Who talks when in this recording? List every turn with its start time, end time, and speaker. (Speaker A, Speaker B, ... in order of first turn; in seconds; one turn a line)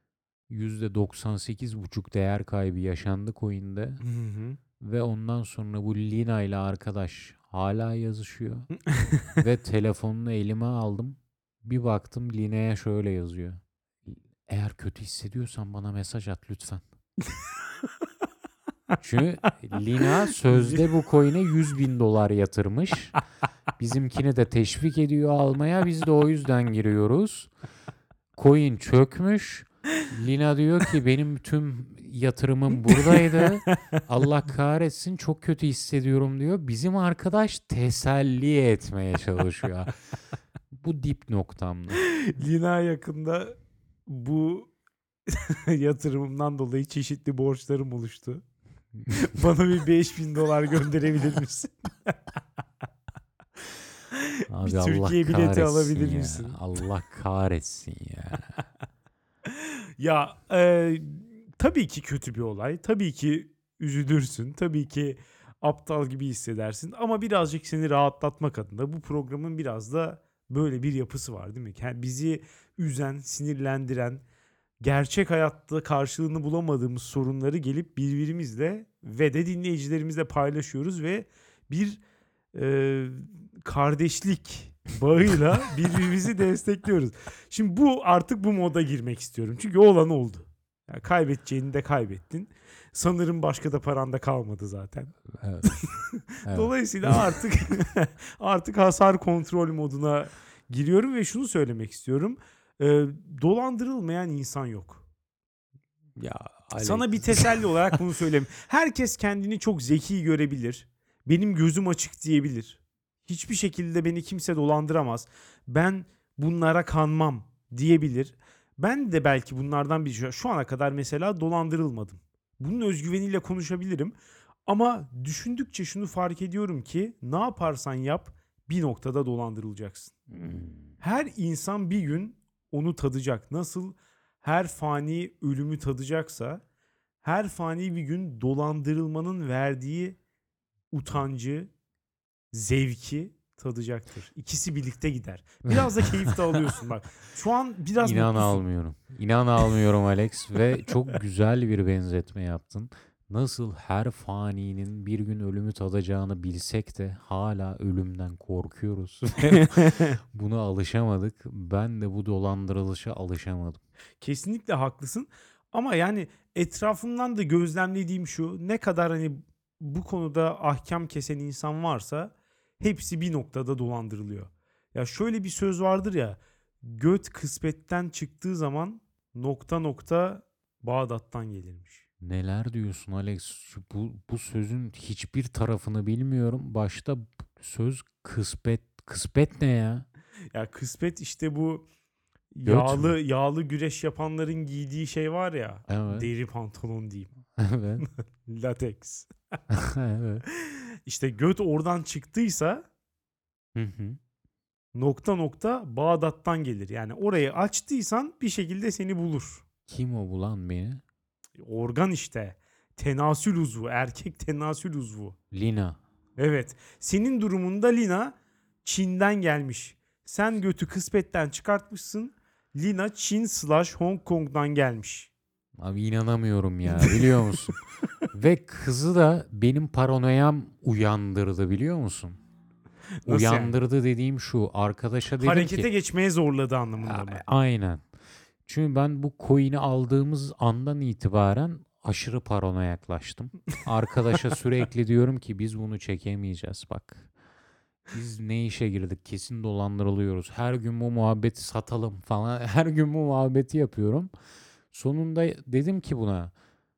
Speaker A: 0.5-4.0
Speaker B: 4.0-4.6
Speaker A: 4.8-8.7
Speaker B: 8.9-9.4
Speaker A: 9.4-16.8
Speaker A: 19.0-23.1
Speaker B: 20.5-20.8
Speaker A: 23.8-27.5
Speaker A: 28.4-40.0
Speaker B: 32.9-34.0
Speaker A: 40.7-42.1
Speaker B: 42.1-44.7
Speaker B: 45.3-48.4
Speaker B: 49.1-52.2
Speaker B: 54.1-56.6
Speaker A: 54.5-58.6
Speaker B: 59.5-74.2
Speaker B: 74.8-82.0
Speaker B: 82.5-105.0
Speaker A: 95.3-95.8
Speaker A: 96.5-97.2
Speaker A: 106.2-107.6
Speaker B: 106.8-124.2
Speaker B: 124.7-130.1
Speaker A: 130.3-130.9
Speaker B: 131.0-136.6
Speaker B: 137.2-140.2
Speaker B: 140.9-141.7
Speaker B: 142.5-148.6
Speaker A: 148.0-163.8
Speaker B: 159.5-160.1
Speaker B: 164.2-182.1
Speaker A: 182.2-190.1
Speaker B: 190.5-191.8
Speaker B: 192.5-197.3
Speaker A: 192.7-193.2
Speaker A: 195.9-196.3
Speaker A: 197.6-198.1
Speaker B: 198.0-199.3
Speaker A: 199.7-200.4
Speaker B: 200.7-202.8
Speaker A: 203.8-204.2
Speaker B: 204.9-209.7
Speaker A: 209.9-211.0
Speaker B: 211.6-215.4
Speaker A: 215.5-216.0
Speaker B: 216.4-225.3
Speaker A: 225.8-227.8
Speaker B: 226.9-227.8
Speaker A: 228.3-232.4
Speaker B: 233.2-233.8
Speaker A: 233.3-235.9
Speaker B: 235.4-237.4
Speaker A: 237.0-238.1
Speaker A: 238.7-247.3
Speaker A: 248.1-254.3
Speaker A: 254.9-256.5